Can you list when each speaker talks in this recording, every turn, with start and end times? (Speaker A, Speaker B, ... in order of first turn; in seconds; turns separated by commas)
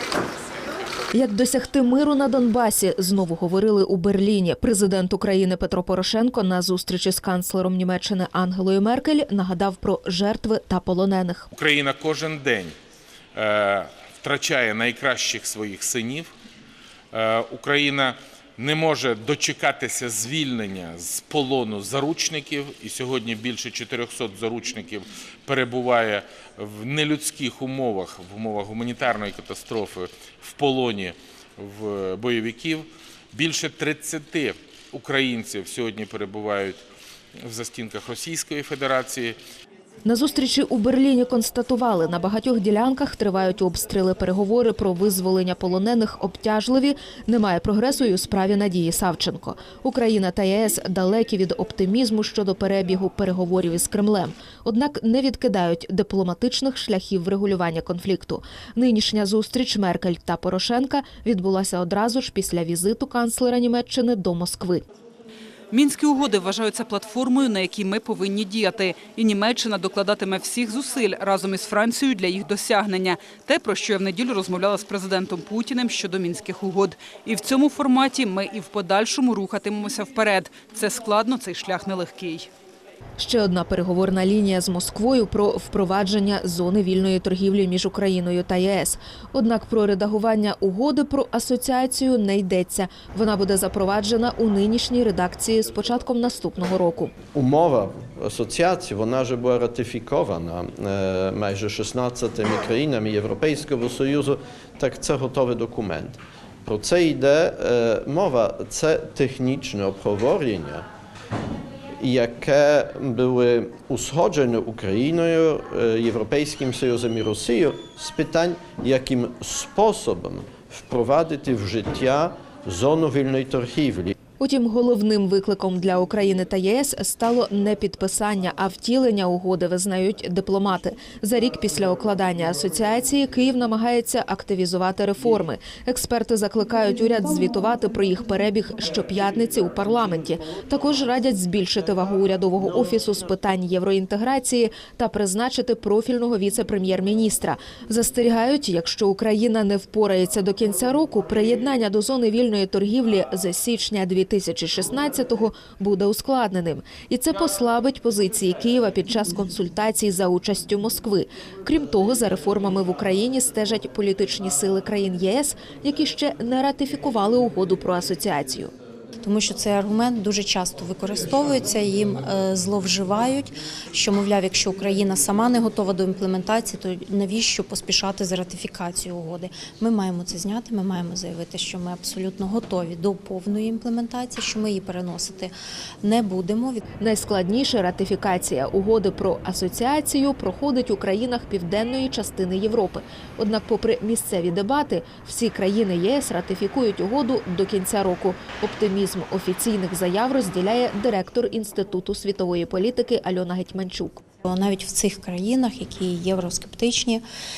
Speaker A: 1.1-11.5, Speaker B: 11.5-12.8, Speaker B: 13.3-16.3, Speaker B: 17.1-36.8, Speaker B: 37.5-39.4, Speaker A: 40.0-64.8, Speaker C: 66.0-69.2, Speaker C: 69.7-72.5, Speaker C: 73.4-74.9, Speaker C: 75.5-77.3, Speaker C: 77.9-82.4, Speaker A: 83.2-97.2, Speaker D: 97.3-110.9, Speaker D: 112.0-124.2, Speaker A: 124.4-168.7, Speaker E: 169.2-186.9, Speaker A: 187.0-204.2, Speaker E: 204.5-207.2